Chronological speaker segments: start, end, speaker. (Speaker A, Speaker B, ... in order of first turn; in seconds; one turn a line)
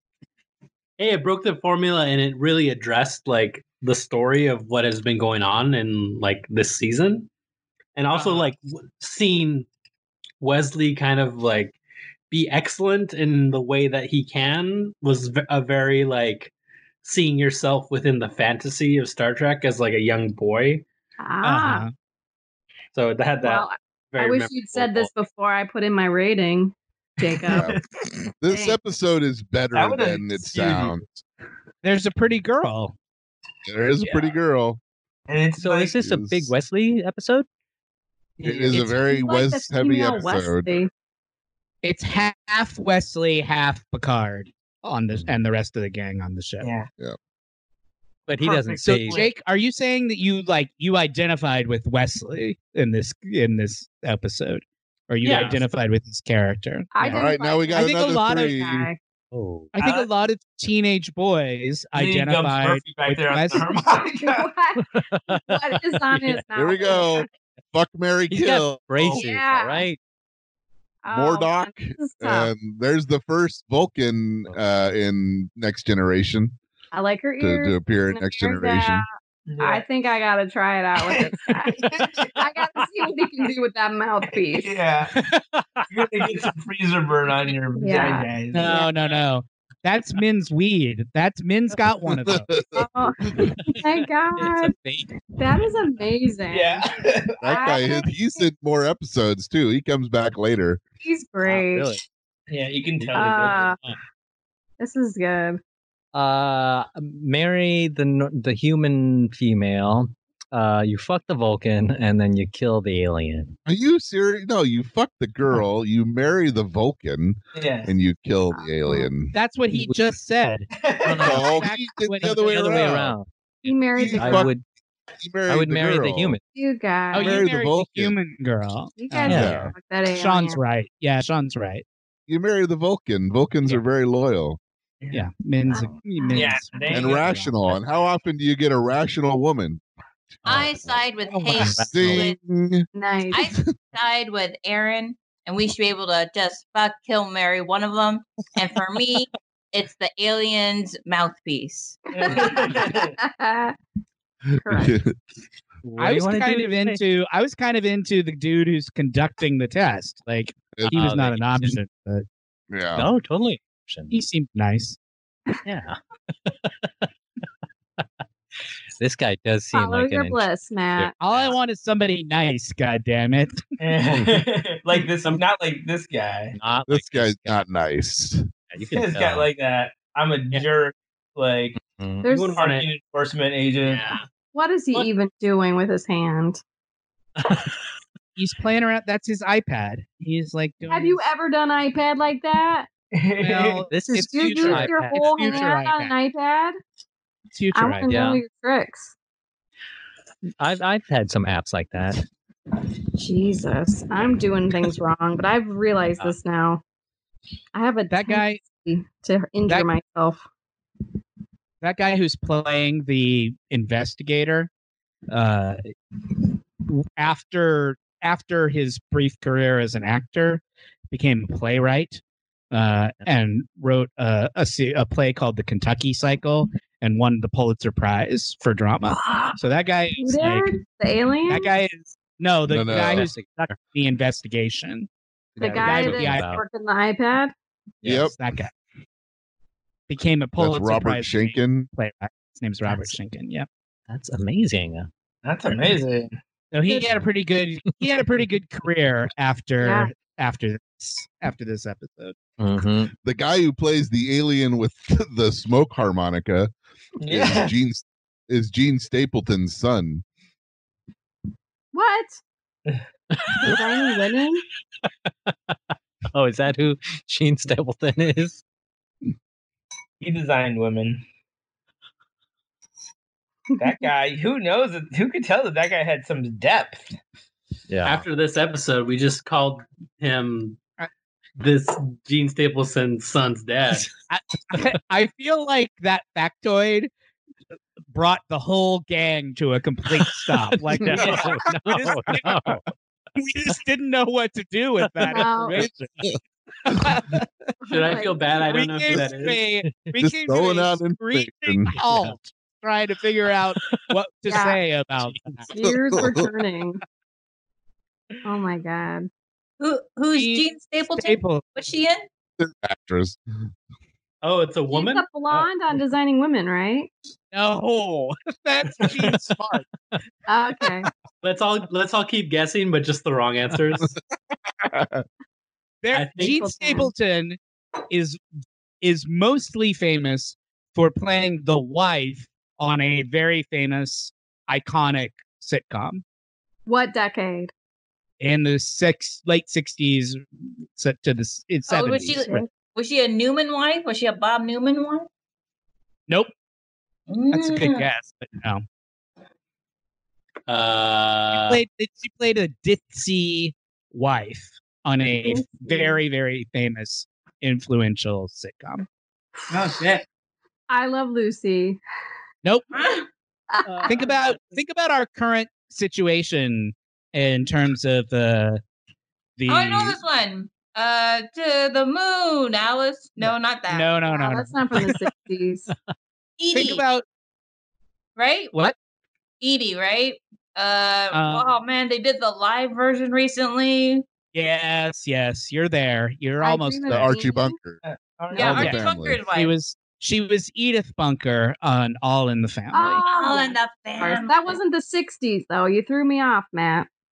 Speaker A: 1.0-7.3
Speaker A: 8.0-9.7
Speaker B: 8.1-8.5
Speaker A: 10.4-11.8
Speaker A: 12.3-20.9
Speaker C: 21.2-21.9
Speaker D: 21.4-21.9
Speaker A: 22.9-25.1
Speaker C: 23.4-27.7
Speaker E: 27.5-31.2
Speaker B: 27.5-27.8
Speaker C: 28.5-28.8
Speaker B: 29.7-31.0
Speaker D: 31.8-33.0
Speaker E: 33.7-34.8
Speaker B: 35.3-36.0
Speaker F: 35.6-37.5
Speaker E: 36.0-36.5
Speaker B: 38.4-38.8
Speaker E: 38.4-40.8
Speaker C: 38.7-40.9
Speaker D: 41.8-46.7
Speaker F: 45.1-45.4
Speaker B: 46.6-46.9
Speaker F: 48.3-49.3
Speaker B: 48.4-49.3
Speaker D: 48.8-57.2
Speaker A: 55.2-55.6
Speaker C: 56.9-59.0
Speaker E: 57.1-58.9
Speaker D: 57.7-58.6
Speaker F: 59.3-59.7
Speaker D: 59.7-63.7
Speaker B: 59.8-60.1
Speaker B: 61.9-64.5
Speaker C: 64.0-67.2
Speaker F: 64.8-67.1
Speaker E: 66.6-69.2
Speaker F: 68.3-70.0
Speaker C: 69.1-69.9
Speaker C: 71.0-72.5
Speaker E: 71.1-76.5
Speaker C: 76.9-79.1
Speaker E: 77.4-79.0
Speaker B: 79.5-79.8
Speaker C: 79.6-84.8
Speaker B: 81.0-82.2
Speaker B: 84.5-85.1
Speaker F: 85.6-85.8
Speaker B: 85.9-88.9
Speaker C: 87.8-88.8
Speaker D: 88.5-92.6
Speaker E: 92.2-92.8
Speaker C: 92.7-94.7
Speaker F: 93.7-95.2
Speaker C: 95.4-96.9
Speaker B: 96.5-97.6
Speaker E: 97.4-100.8
Speaker C: 97.4-98.4
Speaker C: 101.0-102.0
Speaker F: 101.4-102.0
Speaker B: 102.5-103.7
Speaker F: 103.0-104.0
Speaker C: 103.1-103.8
Speaker C: 104.8-105.6
Speaker F: 106.1-113.5
Speaker E: 113.7-119.3
Speaker B: 117.5-117.9
Speaker C: 118.5-119.1
Speaker D: 119.3-120.7
Speaker F: 119.7-121.6
Speaker B: 120.7-121.5
Speaker E: 121.2-123.1
Speaker D: 121.4-122.5
Speaker F: 122.2-123.3
Speaker C: 123.6-124.5
Speaker E: 124.0-124.5
Speaker F: 124.1-124.6
Speaker E: 125.2-126.4
Speaker F: 125.5-126.4
Speaker C: 126.5-127.5
Speaker D: 127.1-129.6
Speaker E: 127.2-128.1
Speaker C: 129.0-130.6
Speaker F: 129.3-129.7
Speaker E: 129.3-129.7
Speaker D: 130.1-131.8
Speaker E: 132.3-134.6
Speaker B: 135.0-135.2
Speaker D: 135.1-137.7
Speaker F: 135.7-136.0
Speaker C: 135.7-137.1
Speaker B: 136.3-137.3
Speaker E: 136.9-139.8
Speaker G: 140.5-142.4
Speaker F: 140.5-141.0
Speaker D: 141.4-142.1
Speaker F: 141.5-142.2
Speaker E: 141.6-143.7
Speaker C: 142.9-143.5
Speaker G: 143.3-152.6
Speaker B: 152.1-153.1
Speaker C: 152.2-153.8
Speaker E: 154.6-155.1
Speaker C: 154.6-155.0
Speaker F: 155.8-157.0
Speaker D: 156.0-162.2
Speaker E: 160.7-161.0
Speaker F: 160.9-161.8
Speaker E: 162.7-163.1
Speaker F: 162.9-164.2
Speaker D: 164.1-165.0
Speaker F: 165.6-166.0
Speaker F: 169.0-171.6
Speaker C: 169.7-171.1
Speaker D: 171.2-173.6
Speaker B: 173.8-176.5
Speaker F: 176.5-177.6
Speaker E: 176.9-178.5
Speaker F: 178.7-179.5
Speaker B: 178.9-181.8
Speaker F: 181.8-182.4
Speaker C: 182.2-182.6
Speaker A: 182.2-182.9
Speaker B: 182.6-184.1
Speaker A: 183.8-184.2
Speaker C: 184.5-186.6
Speaker D: 188.4-191.2
Speaker C: 190.9-192.9
Speaker B: 193.1-193.9
Speaker D: 193.4-196.1
Speaker F: 193.9-195.7
Speaker C: 194.2-196.8
Speaker D: 197.5-198.1
Speaker C: 197.7-199.1
Speaker F: 198.1-198.4
Speaker F: 200.6-202.2
Speaker C: 203.2-206.8
Speaker C: 207.7-210.4
Speaker D: 208.1-208.6
Speaker D: 211.8-214.7
Speaker D: 215.3-215.8
Speaker D: 216.8-230.7
Speaker C: 229.1-229.6
Speaker C: 230.2-231.7
Speaker D: 231.5-235.1
Speaker E: 232.7-233.3
Speaker F: 232.9-233.8
Speaker F: 235.6-236.6
Speaker C: 235.6-237.5
Speaker D: 235.7-236.5
Speaker E: 238.0-238.3
Speaker D: 238.1-238.7
Speaker D: 240.1-243.7
Speaker E: 240.6-241.9
Speaker F: 242.8-243.2
Speaker F: 244.1-245.1
Speaker B: 245.4-246.3
Speaker D: 246.7-252.4
Speaker C: 249.8-250.1
Speaker F: 252.6-253.1
Speaker E: 253.2-256.7
Speaker B: 257.2-257.7
Speaker E: 257.3-260.2
Speaker C: 261.9-262.4
Speaker C: 263.5-264.6
Speaker F: 266.3-268.6
Speaker B: 270.2-271.2
Speaker B: 273.8-277.2
Speaker F: 277.9-278.2
Speaker A: 278.0-280.8
Speaker A: 281.6-284.1
Speaker D: 284.3-287.1
Speaker D: 288.1-292.8
Speaker F: 290.2-292.8
Speaker D: 293.4-296.3
Speaker C: 295.2-295.8
Speaker D: 296.9-297.4
Speaker C: 297.9-298.8
Speaker A: 297.9-299.6
Speaker D: 298.6-305.7
Speaker F: 299.8-300.1
Speaker E: 300.2-302.0
Speaker F: 302.0-302.4
Speaker F: 303.8-304.1
Speaker C: 304.5-304.8
Speaker F: 305.2-305.5
Speaker C: 305.7-307.0
Speaker E: 305.8-306.4
Speaker C: 308.4-309.3
Speaker G: 309.8-312.3
Speaker D: 310.3-311.6
Speaker E: 312.6-313.4
Speaker A: 314.4-315.3
Speaker C: 314.9-317.1
Speaker D: 317.5-319.8
Speaker F: 319.0-319.5
Speaker C: 320.5-321.1
Speaker A: 321.4-324.1
Speaker E: 324.8-325.2
Speaker D: 326.0-327.6
Speaker A: 326.1-326.6
Speaker C: 326.4-327.1
Speaker D: 328.1-328.4
Speaker D: 329.0-336.2
Speaker C: 336.9-337.7
Speaker D: 338.4-340.4
Speaker D: 340.9-342.6
Speaker G: 341.9-345.3
Speaker G: 347.3-348.1
Speaker D: 347.5-348.9
Speaker A: 350.7-351.8
Speaker D: 351.5-359.1
Speaker C: 355.4-356.2
Speaker B: 359.8-360.2
Speaker C: 360.9-362.0
Speaker D: 362.6-362.9
Speaker G: 362.9-363.3
Speaker C: 363.7-364.2
Speaker F: 364.0-364.4
Speaker D: 364.1-368.8
Speaker D: 369.6-370.2
Speaker G: 369.7-374.1
Speaker D: 373.4-375.2
Speaker C: 374.3-375.9
Speaker G: 376.6-377.0
Speaker D: 376.7-377.2
Speaker G: 378.4-378.8
Speaker G: 379.6-384.2
Speaker D: 381.3-381.6
Speaker D: 384.5-387.3
Speaker C: 386.6-387.8
Speaker E: 387.1-388.0
Speaker B: 388.0-388.9
Speaker E: 388.6-389.4
Speaker G: 388.6-389.8
Speaker D: 388.6-393.2
Speaker C: 392.9-397.1
Speaker G: 393.2-394.6